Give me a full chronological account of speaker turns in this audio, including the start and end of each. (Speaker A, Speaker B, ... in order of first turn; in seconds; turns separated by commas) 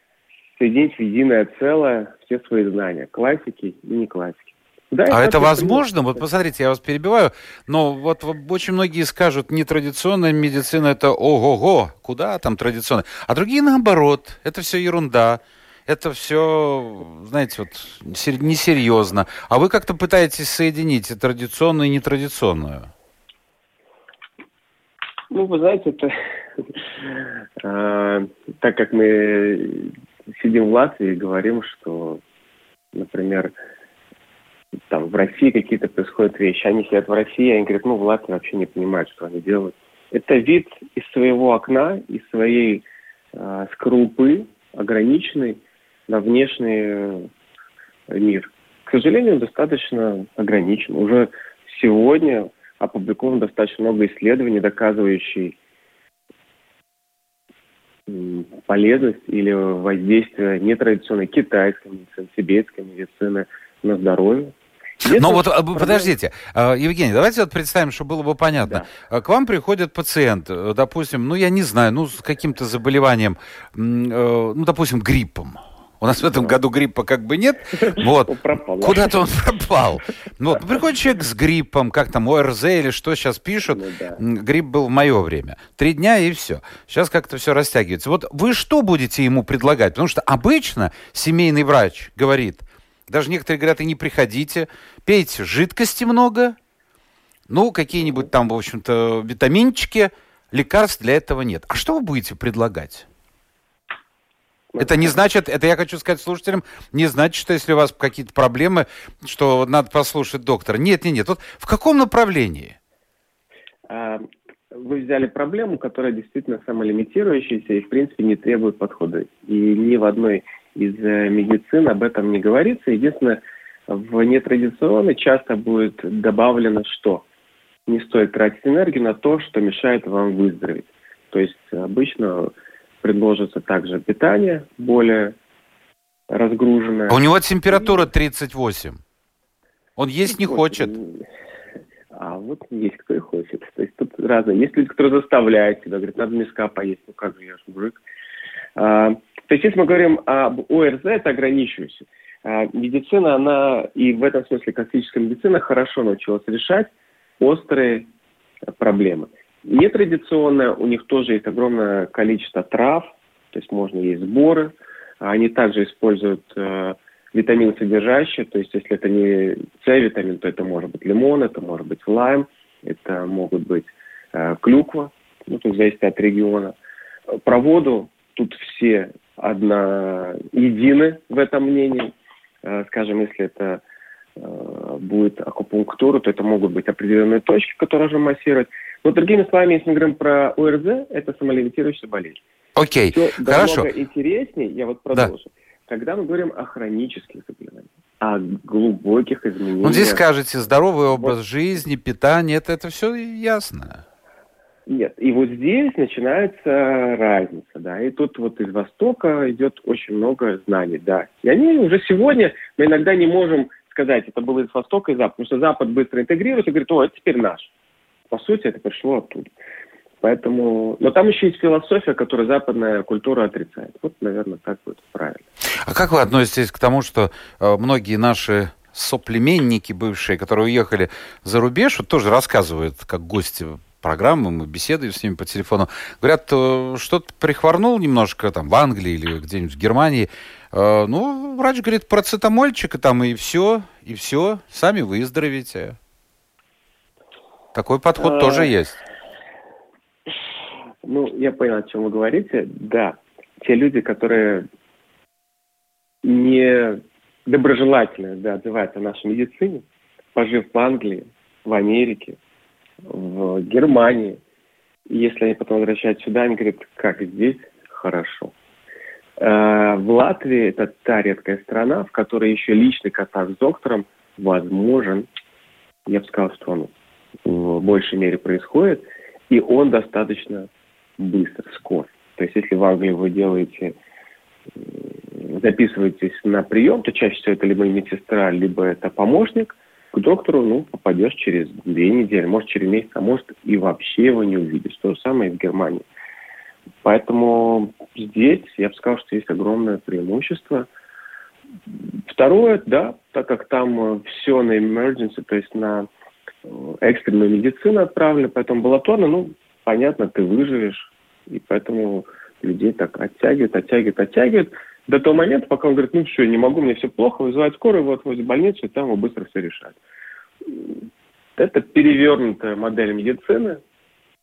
Speaker A: 0.6-6.2, Speaker B: 5.1-22.9, Speaker A: 25.3-32.2, Speaker A: 32.9-33.5, Speaker A: 34.9-47.3, Speaker A: 48.1-55.6, Speaker A: 58.1-66.1, Speaker B: 65.0-96.5, Speaker A: 68.6-68.9, Speaker A: 76.2-76.6, Speaker A: 77.8-79.3, Speaker A: 83.7-84.2, Speaker B: 97.5-103.1, Speaker A: 104.7-105.2, Speaker B: 104.8-112.8, Speaker A: 113.9-127.2, Speaker A: 127.9-132.5, Speaker A: 133.0-135.3, Speaker A: 136.3-138.0, Speaker B: 137.1-139.0, Speaker B: 140.0-140.9, Speaker A: 140.2-141.2, Speaker A: 142.1-148.0, Speaker A: 148.8-158.1, Speaker A: 158.7-176.8, Speaker A: 177.3-182.1, Speaker A: 182.6-183.8, Speaker A: 184.4-192.4, Speaker B: 192.8-193.9, Speaker A: 193.1-200.2, Speaker B: 199.8-204.0, Speaker A: 204.9-217.7, Speaker A: 218.3-219.5, Speaker A: 220.2-225.4, Speaker B: 225.8-246.0, Speaker B: 247.7-249.0, Speaker A: 248.2-248.7, Speaker A: 251.1-254.7, Speaker A: 256.2-259.8, Speaker A: 260.3-262.4, Speaker A: 263.1-264.4, Speaker A: 265.1-268.5, Speaker A: 269.4-275.3, Speaker A: 276.1-276.9, Speaker A: 277.4-283.9, Speaker A: 284.8-296.0, Speaker A: 297.0-300.9, Speaker A: 302.3-306.1, Speaker A: 306.7-320.0, Speaker A: 320.6-321.0, Speaker A: 321.6-323.8